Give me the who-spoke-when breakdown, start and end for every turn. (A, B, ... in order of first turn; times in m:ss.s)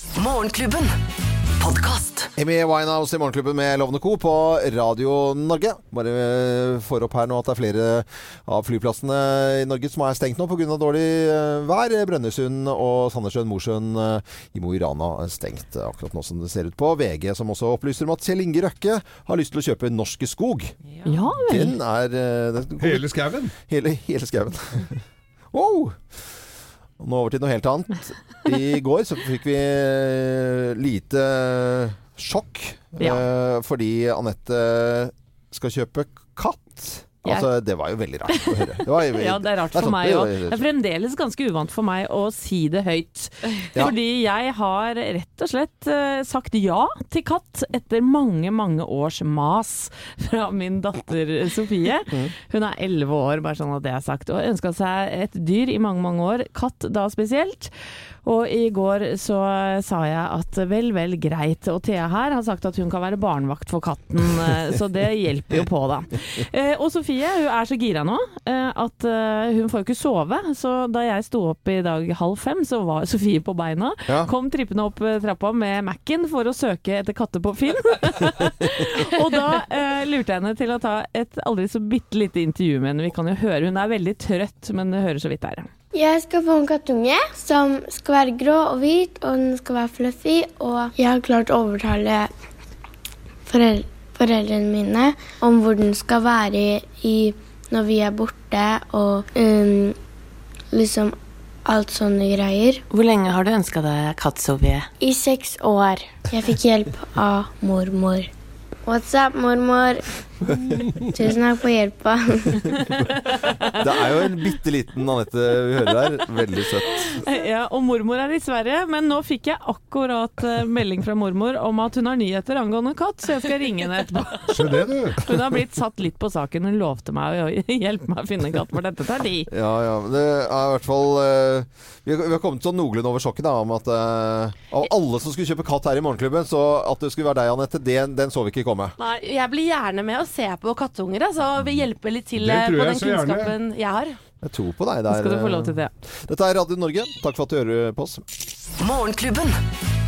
0:00.2-0:00.9 A
0:01.6-0:02.3 A
0:02.4-0:20.8 B
0:21.1-0:21.8 C
0:21.4-0:23.1 B
0:22.8-0:23.5 D
0:23.6-0:26.2 B
0:27.0-0:40.6 B
0:33.0-0:33.2 C
0:38.3-0:57.7 C
0:58.2-1:25.7 C
1:25.9-1:32.3 E
1:33.5-1:40.0 E
1:40.7-1:42.8 E
1:42.9-1:44.9 F
1:45.0-1:48.3 E
1:48.9-1:50.0 E
1:50.5-1:50.8 B
1:51.1-1:52.7 E
1:52.9-1:54.2 C
1:53.7-1:57.2 B
1:57.1-2:09.5 C
2:04.5-2:05.2 D
2:09.5-2:19.0 B
2:19.0-2:24.2 G
2:22.4-2:23.6 D
2:24.4-2:28.2 B
2:25.1-2:25.9 C
2:28.8-2:29.6 A